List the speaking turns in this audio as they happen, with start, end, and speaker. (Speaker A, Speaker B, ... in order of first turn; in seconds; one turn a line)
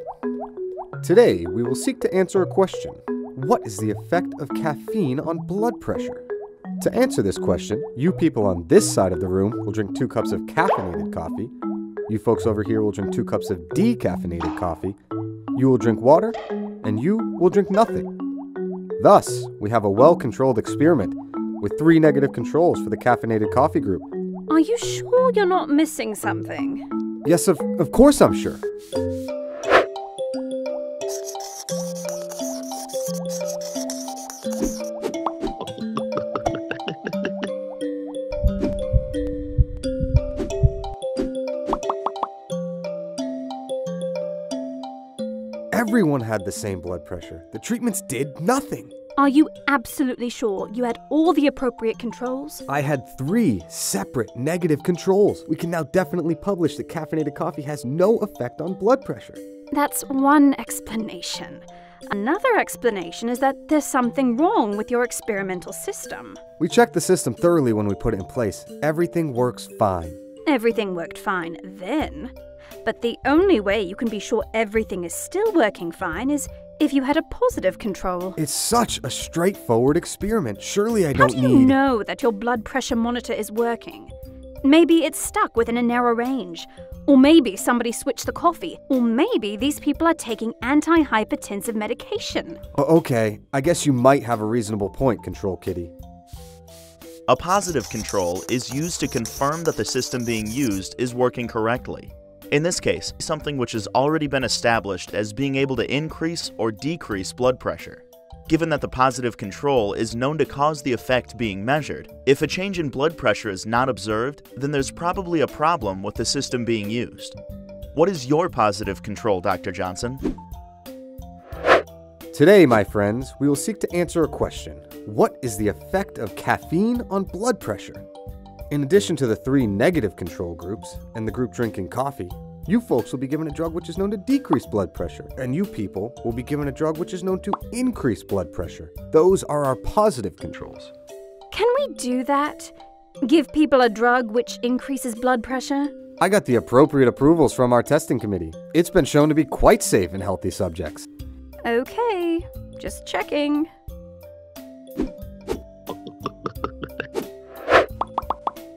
Speaker A: 1.0-6.2
Speaker A: 6.8-11.5
Speaker A: 12.1-15.0
Speaker A: 15.5-18.1
Speaker A: 19.0-24.1
Speaker B: 24.5-26.8
Speaker A: 27.2-28.6
Speaker A: 45.7-48.9
Speaker B: 49.1-52.6
Speaker A: 52.7-59.4
Speaker B: 59.7-66.4
Speaker A: 66.6-70.2
Speaker B: 70.5-72.3
Speaker B: 72.8-78.4
Speaker A: 78.4-81.8
Speaker B: 81.1-92.6
Speaker A: 92.8-95.9
Speaker C: 97.3-117.4
Speaker C: 117.9-120.2
Speaker A: 122.3-128.0
Speaker A: 128.7-140.9
Speaker B: 141.5-145.9
Speaker A: 146.2-151.1
Speaker B: 151.6-153.7